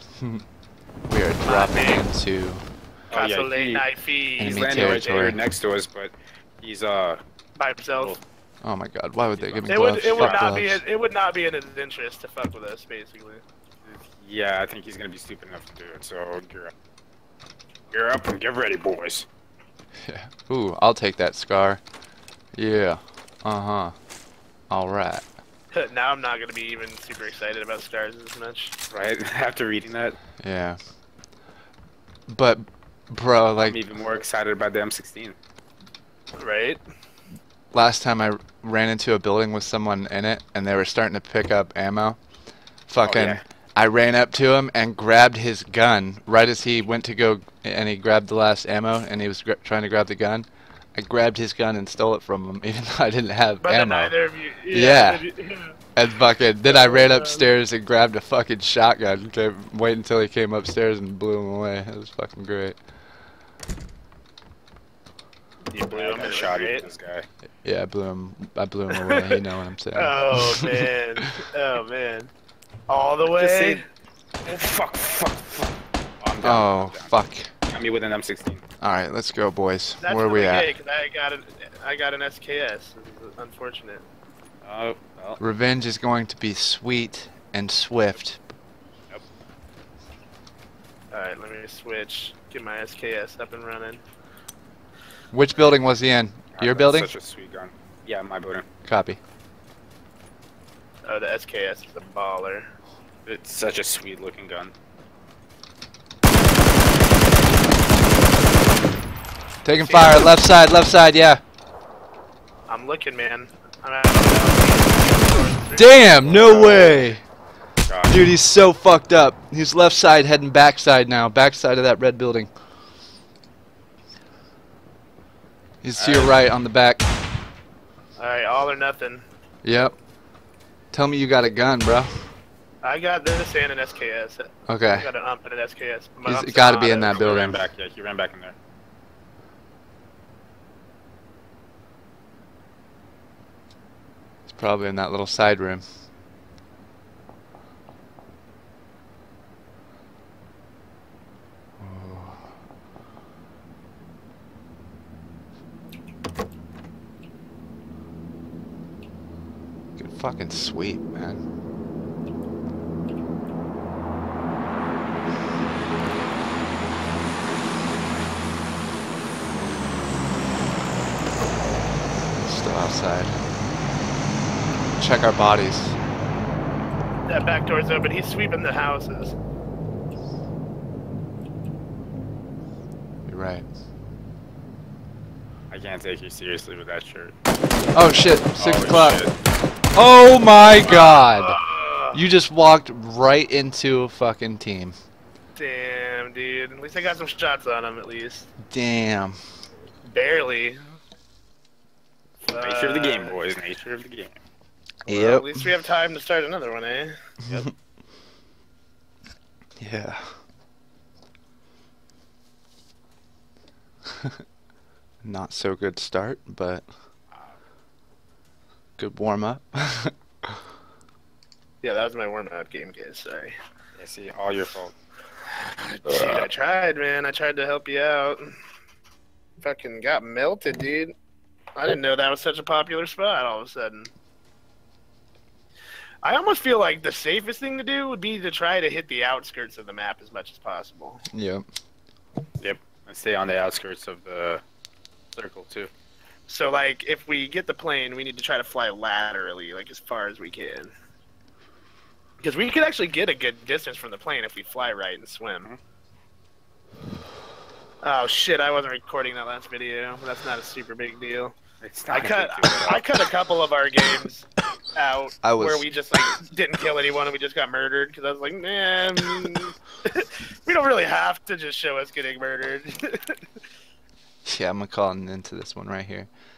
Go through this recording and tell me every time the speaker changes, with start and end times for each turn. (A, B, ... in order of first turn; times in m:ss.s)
0:00.2-0:00.4 A
0:01.1-0:02.6 A
0:01.4-0:02.1 B
0:03.1-0:07.2 C
0:03.1-0:05.4 B
0:04.4-0:05.4 A
0:07.6-0:08.2 B
0:08.6-0:10.8 A
0:09.4-0:10.5 C
0:09.7-0:13.4 B
0:13.8-0:16.7 C
0:17.9-0:19.3 C
0:20.0-0:21.8 A
0:22.6-0:23.9 A
0:24.7-0:25.2 A
0:25.7-0:28.8 B
0:28.9-0:30.2 C
0:30.4-0:30.8 A
0:32.3-0:33.8 A
0:33.6-0:35.4 C
0:36.4-0:36.8 B
0:37.7-0:42.2 A
0:42.9-0:54.2 A
0:43.0-0:43.4 C
0:53.6-0:55.8 B
0:54.7-0:55.2 A
0:56.0-1:02.8 A
0:56.6-0:57.5 B
1:05.7-1:06.9 B
1:05.9-1:07.3 C
1:07.6-1:11.3 A
1:09.0-1:09.3 B
1:10.0-1:12.3 B
1:12.9-1:13.8 B
1:13.2-1:13.8 C
1:14.4-1:17.1 C
1:16.4-1:17.5 A
1:17.7-1:18.6 C
1:18.8-1:20.7 A
1:20.0-1:24.0 B
1:24.6-1:25.4 C
1:25.4-1:28.4 A
1:31.1-1:34.0 B
1:35.3-1:37.1 A
1:36.6-1:38.7 C
1:38.8-1:39.2 A
1:41.0-1:42.7 B
1:43.3-1:44.7 C
1:49.6-1:51.4 A
1:49.8-1:50.3 B
1:52.7-1:57.2 B
1:55.7-1:57.2 A
1:57.9-1:58.2 C
1:58.1-2:02.5 A
2:05.8-2:07.0 A
2:06.0-2:06.4 C
2:08.2-2:09.3 B
2:09.6-2:10.0 A
2:10.9-2:12.2 A
2:12.8-2:17.5 B
2:14.7-2:15.1 A
2:16.2-2:17.6 A
2:17.1-2:18.6 C
2:24.5-2:25.8 A
2:31.8-2:32.4 A
2:40.0-2:41.4 A
2:52.3-2:53.4 A
2:55.0-2:56.0 A
2:57.3-2:59.4 B
3:03.3-3:03.7 A
3:05.7-3:07.3 C
3:07.9-3:09.2 A
3:08.6-3:09.3 C
3:09.9-3:11.6 A
3:10.8-3:12.2 B
3:12.1-3:15.0 A
3:15.6-3:18.5 B
3:18.7-3:19.4 A
3:20.1-3:20.8 B
3:22.5-3:23.4 B
3:22.6-3:24.4 C
3:25.1-3:27.2 B
3:25.1-3:25.7 A
3:29.8-3:30.3 A
3:35.2-3:36.9 A
3:37.3-3:37.6 C
3:39.0-3:40.5 A
3:41.8-3:43.5 B
3:44.0-3:45.0 C
3:45.5-3:48.6 B
3:49.6-3:51.1 B
3:51.8-3:54.1 B
3:56.2-4:01.2 B
4:01.3-4:01.6 A
4:02.6-4:04.6 C
4:05.4-4:05.9 C
4:06.5-4:10.9 B
4:12.4-4:15.7 B
4:18.0-4:21.6 B
4:21.8-4:23.0 C
4:22.1-4:33.4 B
4:25.4-4:25.8 A
4:34.4-4:36.3 A